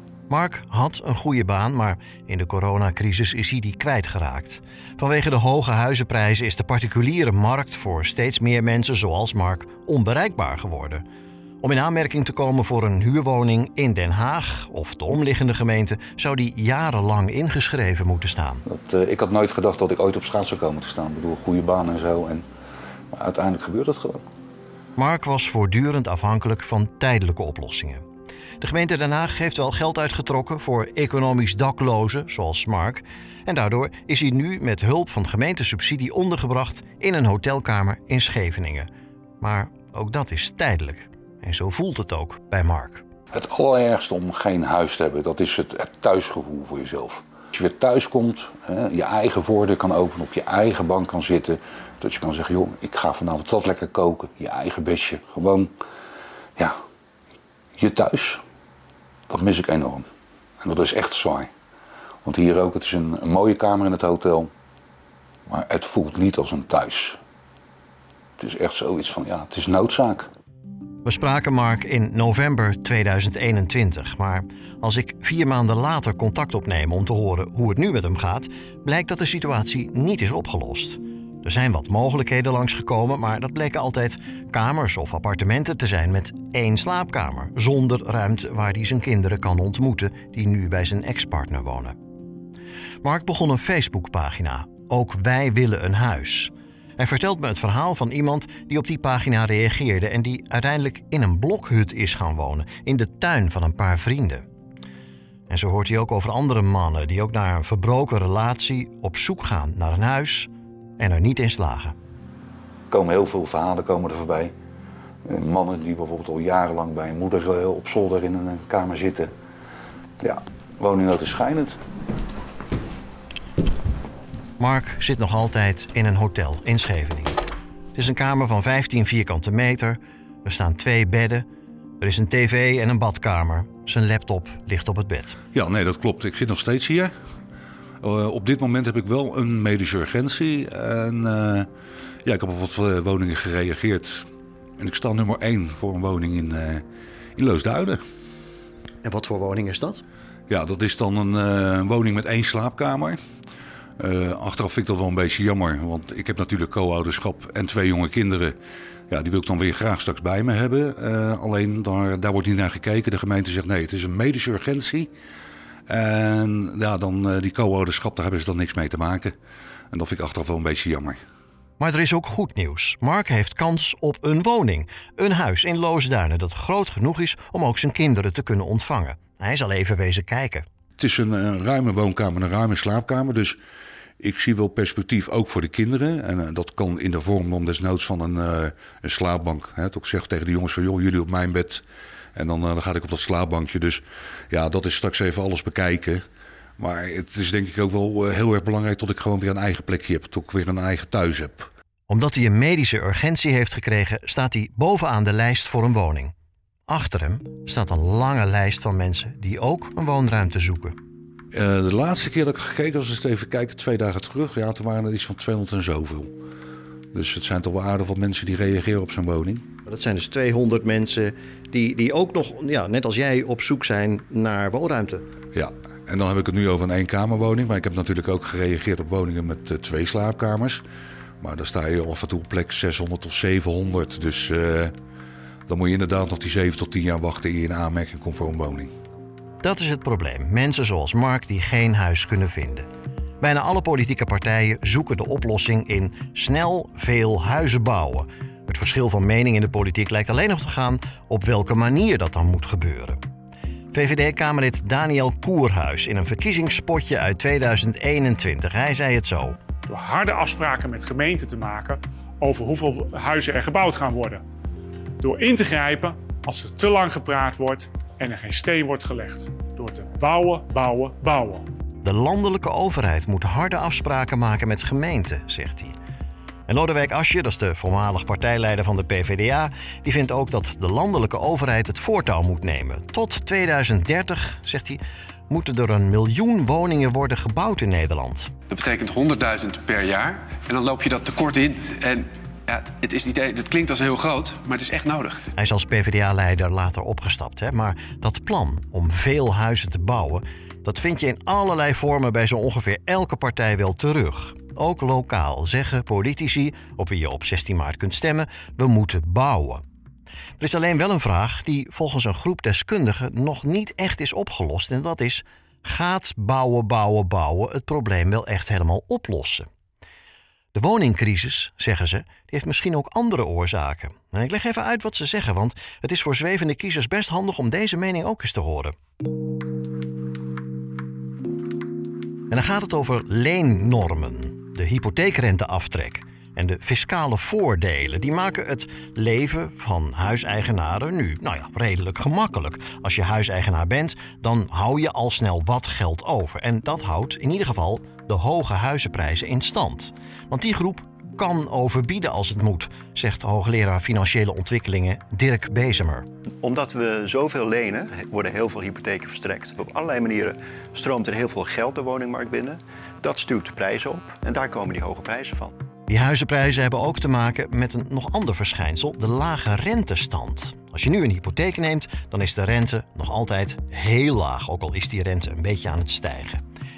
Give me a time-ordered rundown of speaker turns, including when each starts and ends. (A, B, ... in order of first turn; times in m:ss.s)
0:00.3-0:11.0 A
0:11.6-0:18.6 A
0:18.7-0:22.4 B
0:23.1-0:24.2 B
0:25.0-0:28.0 A
0:28.6-0:38.9 A
0:39.4-0:43.0 A
0:43.3-0:55.7 B
0:57.8-0:58.4 B
0:59.3-1:00.1 B
1:00.6-1:01.5 B
1:02.2-1:04.5 B
1:05.5-1:07.2 B
1:08.4-1:10.3 B
1:11.0-1:32.0 A
1:33.0-1:44.4 A
1:45.5-1:52.0 A
1:52.9-1:54.5 B
1:55.3-1:59.3 B
2:00.2-2:01.8 B
2:04.6-2:07.4 A
2:08.0-2:11.4 A
2:12.0-2:15.4 A
2:15.5-2:17.1 B
2:18.0-2:21.7 B
2:22.2-2:24.3 B
2:24.8-2:26.8 B
2:27.4-2:28.0 B
2:29.0-2:30.0 A
2:30.5-2:33.2 B
2:34.0-2:38.6 B
2:39.1-2:45.1 B
2:45.9-2:49.3 B
2:49.9-2:51.2 B
2:51.8-3:00.7 A
3:01.0-3:03.6 B
3:04.2-3:11.8 B
3:12.4-3:16.2 B
3:16.8-3:21.7 B
3:22.1-3:26.3 A
3:26.9-3:31.0 A
3:31.5-3:36.3 B
3:37.1-3:39.6 B
3:39.9-3:45.2 A
3:45.5-3:50.8 B
3:51.4-3:54.9 B
3:55.7-3:58.9 B
3:59.6-4:02.9 A
4:03.4-4:13.2 A
4:13.9-4:19.6 A
4:19.9-4:24.4 C
4:25.2-4:31.7 C
4:32.0-4:36.0 A
4:36.7-4:48.5 A
4:48.7-4:55.4 D
4:55.6-5:09.8 A
5:10.6-5:19.7 A
5:20.7-5:28.9 A
5:32.5-5:56.3 A
5:56.6-6:05.8 E
6:06.1-6:16.6 A